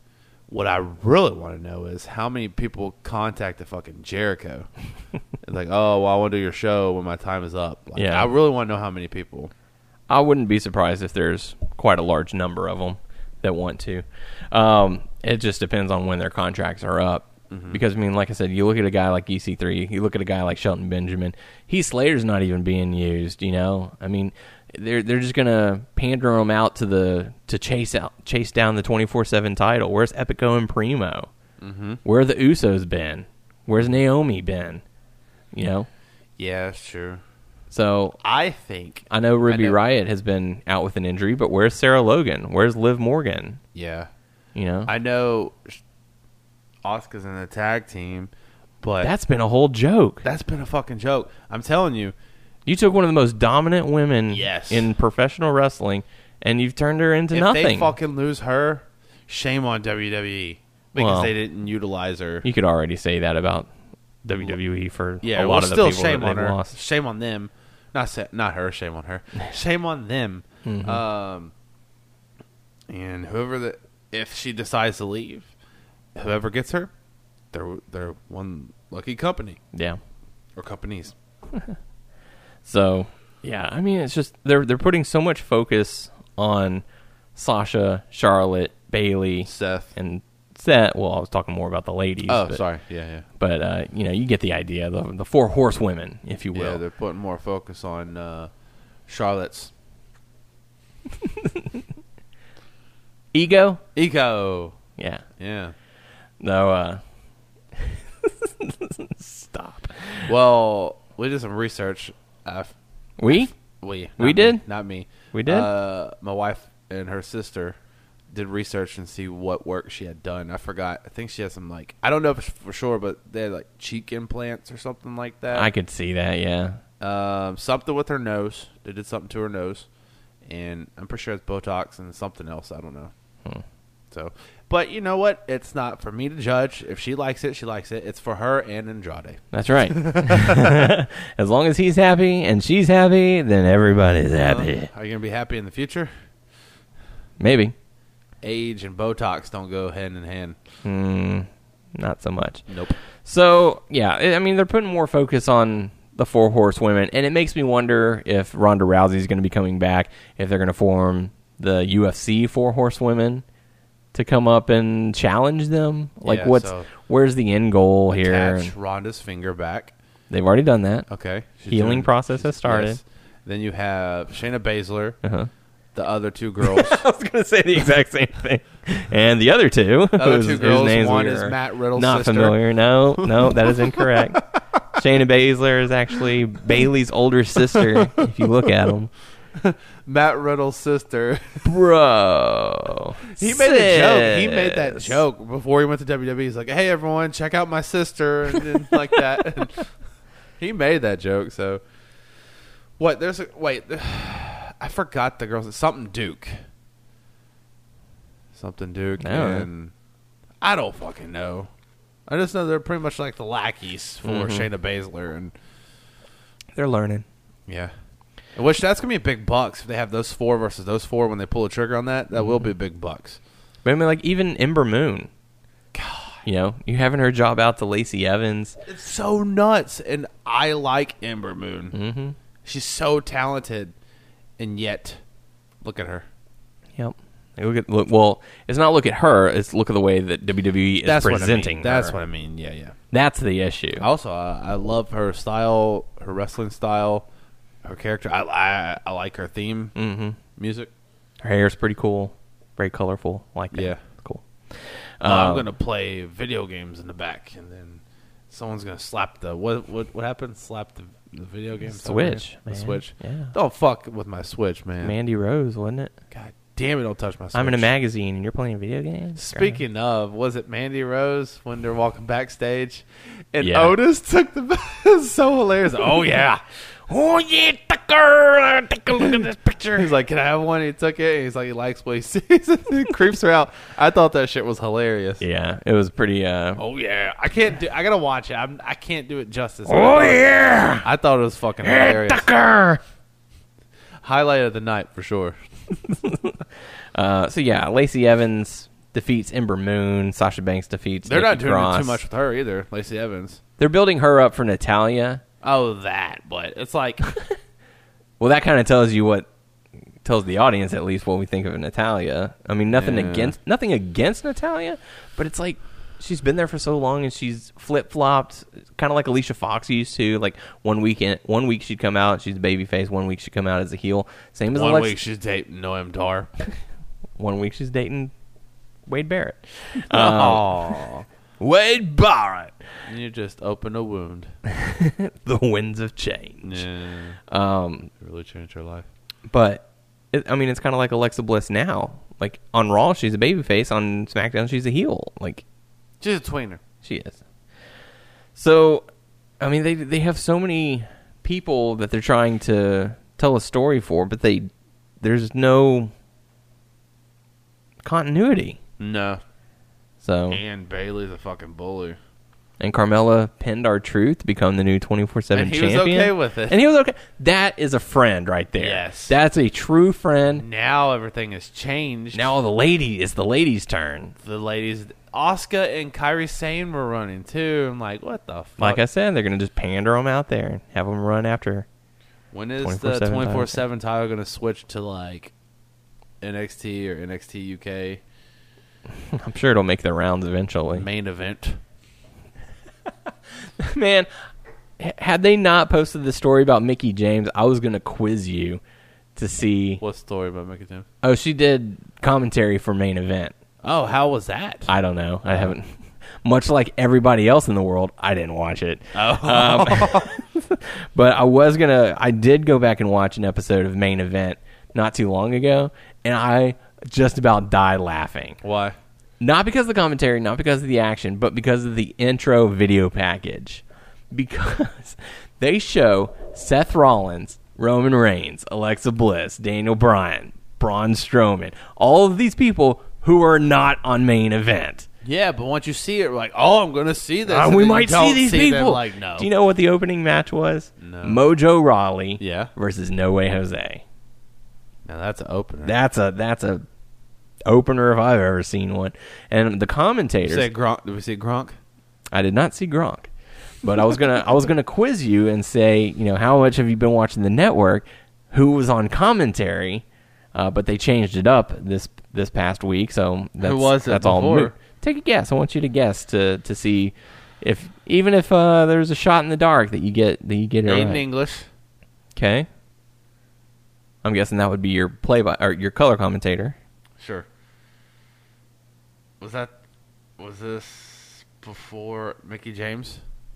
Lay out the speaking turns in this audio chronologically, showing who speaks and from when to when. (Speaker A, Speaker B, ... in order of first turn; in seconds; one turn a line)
Speaker A: 0.5-4.7
Speaker A: 5.4-9.5
Speaker B: 8.0-8.3
Speaker B: 10.1-31.3
Speaker A: 17.5-17.8
Speaker A: 31.6-32.0
Speaker B: 32.0-34.8
Speaker B: 35.5-35.9
Speaker A: 36.4-37.2
Speaker B: 37.7-38.2
Speaker A: 38.2-39.8
Speaker B: 39.1-43.6
Speaker A: 43.7-44.1
Speaker B: 44.5-44.9
Speaker A: 44.9-45.8
Speaker A: 46.8-49.1
Speaker B: 49.0-50.2
Speaker A: 50.2-52.1
Speaker B: 52.7-58.0
Speaker A: 54.3-54.9
Speaker A: 57.3-62.5
Speaker B: 61.0-61.3
Speaker B: 62.4-63.7
Speaker B: 64.2-66.7
Speaker A: 65.2-71.5
Speaker B: 70.6-71.0
Speaker A: 72.9-75.5
Speaker A: 76.1-76.9
Speaker A: 77.5-79.6
Speaker B: 79.7-80.0
Speaker A: 80.5-81.1
Speaker B: 82.6-86.8
Speaker B: 87.4-92.6
Speaker A: 89.5-89.9
Speaker A: 92.3-93.3
Speaker B: 93.4-96.8
Speaker A: 96.5-98.5
Speaker A: 99.1-99.7
Speaker B: 103.3-103.8
Speaker A: 104.0-104.8
Speaker B: 105.0-105.2
Speaker A: 105.4-105.7
Speaker B: 106.4-107.0
Speaker B: 107.8-110.3
Speaker A: 110.3-112.7
Speaker B: 113.2-113.5
Speaker A: 113.3-117.8
Speaker B: 114.2-114.6
Speaker B: 115.3-115.7
Speaker A: 118.3-125.7
Speaker B: 125.5-126.8
Speaker A: 127.0-129.9
Speaker A: 130.4-133.1
Speaker A: 134.1-140.9
Speaker B: 139.5-144.9
Speaker A: 144.4-146.1
Speaker B: 147.4-147.7
Speaker A: 148.4-150.6
Speaker B: 150.8-163.4
Speaker A: 152.7-152.9
Speaker B: 164.1-168.7
Speaker A: 166.2-166.9
Speaker A: 168.1-169.9
Speaker B: 170.3-171.1
Speaker A: 171.1-175.2
Speaker B: 171.7-173.0
Speaker B: 175.2-175.5
Speaker A: 175.9-177.0
Speaker B: 176.6-189.1
Speaker A: 180.2-182.6
Speaker A: 183.2-184.6
Speaker A: 187.7-188.2
Speaker A: 189.6-191.7
Speaker B: 191.6-195.2
Speaker A: 193.4-199.9
Speaker A: 200.6-201.8
Speaker A: 203.0-206.6
Speaker A: 208.5-209.9
Speaker B: 209.2-209.7
Speaker A: 210.6-211.7
Speaker A: 212.3-215.5
Speaker B: 214.2-214.7
Speaker B: 216.7-217.2
Speaker A: 217.7-217.9
Speaker A: 218.6-223.4
Speaker B: 222.4-222.7
Speaker B: 223.8-225.3
Speaker A: 225.9-226.4
Speaker B: 226.4-228.8
Speaker A: 228.9-231.9
Speaker B: 231.9-232.4
Speaker A: 232.6-233.9
Speaker A: 234.6-235.2
Speaker A: 235.8-236.3
Speaker B: 237.0-242.1
Speaker A: 241.1-242.9
Speaker B: 243.1-244.1
Speaker A: 244.0-247.3
Speaker A: 247.8-249.9
Speaker B: 249.9-250.4
Speaker A: 250.6-250.9
Speaker B: 251.4-255.7
Speaker A: 253.7-254.0
Speaker A: 255.2-265.1
Speaker B: 261.8-263.5
Speaker B: 265.0-266.1
Speaker A: 266.3-267.9
Speaker B: 267.5-269.8
Speaker A: 269.3-285.4
Speaker B: 273.6-273.9
Speaker B: 285.4-286.8
Speaker A: 286.8-292.4
Speaker B: 289.9-291.1
Speaker B: 291.8-293.0
Speaker A: 294.2-295.6
Speaker B: 296.1-296.6
Speaker B: 297.1-302.2
Speaker A: 301.2-303.6
Speaker B: 303.8-305.4
Speaker A: 305.6-307.2
Speaker B: 308.4-309.5
Speaker B: 310.2-325.2
Speaker A: 312.9-313.6
Speaker A: 324.7-326.5
Speaker B: 327.4-328.3
Speaker B: 329.1-330.9
Speaker A: 330.0-331.3
Speaker B: 331.6-332.7
Speaker A: 333.1-334.5
Speaker B: 334.7-336.8
Speaker A: 336.6-337.4
Speaker B: 337.5-338.1
Speaker A: 338.2-339.1
Speaker B: 339.5-345.6
Speaker A: 346.2-346.8
Speaker B: 347.0-347.4
Speaker B: 348.6-349.1
Speaker B: 349.6-354.7
Speaker B: 355.2-356.1
Speaker B: 358.0-358.8
Speaker A: 359.0-359.4
Speaker B: 360.2-360.6
Speaker A: 360.5-362.2
Speaker B: 362.8-370.6
Speaker A: 365.5-366.8
Speaker A: 368.8-369.4
Speaker A: 370.6-372.5
Speaker B: 372.3-374.3
Speaker A: 374.4-379.0
Speaker B: 378.8-381.9
Speaker A: 382.5-385.5
Speaker B: 382.8-383.8
Speaker A: 386.4-388.2
Speaker B: 389.3-391.1
Speaker A: 390.9-391.8
Speaker B: 393.8-394.3
Speaker B: 395.0-398.8
Speaker B: 399.4-400.0
Speaker A: 400.0-401.1
Speaker B: 401.2-403.5
Speaker A: 403.8-404.9
Speaker B: 404.9-418.6
Speaker A: 409.1-410.4
Speaker A: 418.6-418.9
Speaker B: 419.4-435.1
Speaker A: 435.2-439.5
Speaker B: 437.5-444.0
Speaker A: 441.0-441.4
Speaker A: 442.4-442.7
Speaker A: 445.1-445.9
Speaker B: 445.8-446.9
Speaker B: 447.7-450.7
Speaker A: 450.4-451.8
Speaker B: 452.3-453.3
Speaker B: 453.8-471.2
Speaker A: 463.6-464.7
Speaker A: 470.9-471.7
Speaker B: 472.3-472.7
Speaker B: 474.2-476.8
Speaker A: 477.2-477.5
Speaker A: 479.4-479.7
Speaker A: 480.4-483.2